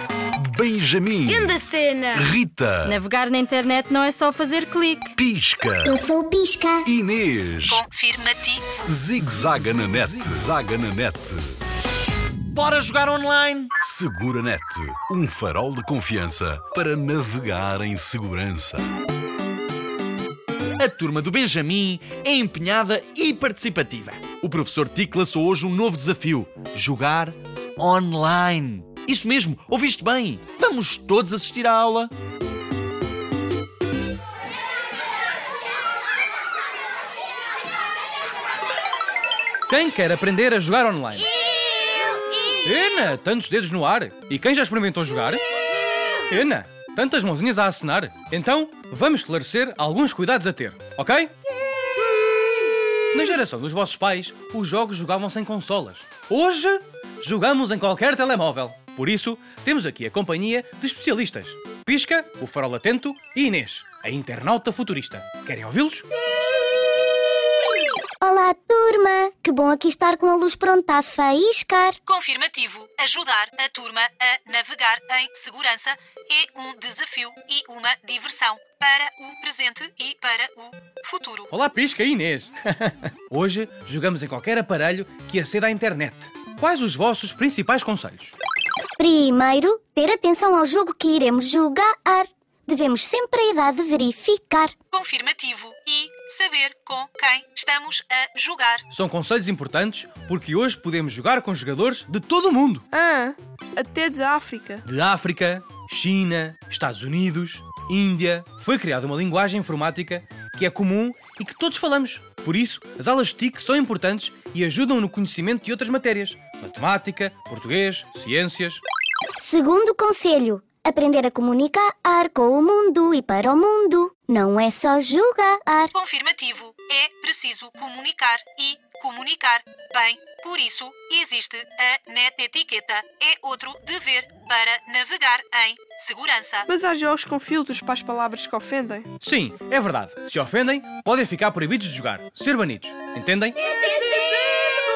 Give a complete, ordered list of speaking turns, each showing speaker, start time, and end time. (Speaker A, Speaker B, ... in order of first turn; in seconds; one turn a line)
Speaker A: 0.4-3.0
Speaker B: 2.9-5.1
Speaker A: 5.2-6.0
Speaker C: 5.8-6.9
Speaker A: 6.8-7.8
Speaker D: 7.7-8.8
Speaker A: 8.9-11.6
Speaker E: 12.5-13.7
Speaker A: 13.8-18.9
Speaker E: 20.8-32.1
Speaker F: 39.7-41.3
Speaker F: 42.6-45.4
Speaker F: 46.3-51.3
Speaker F: 53.1-66.1
Speaker C: 68.2-72.0
Speaker D: 72.1-81.5
Speaker F: 81.5-88.3
Speaker C: 89.0-94.7
Speaker D: 94.9-98.8
Speaker F: 98.9-102.9
Speaker G: 102.9-104.8
Speaker F: 104.8-118.8
Speaker C: 119.4-125.9
Speaker D: 125.9-136.7
Speaker G: 136.7-139.1
Speaker F: 139.2-143.6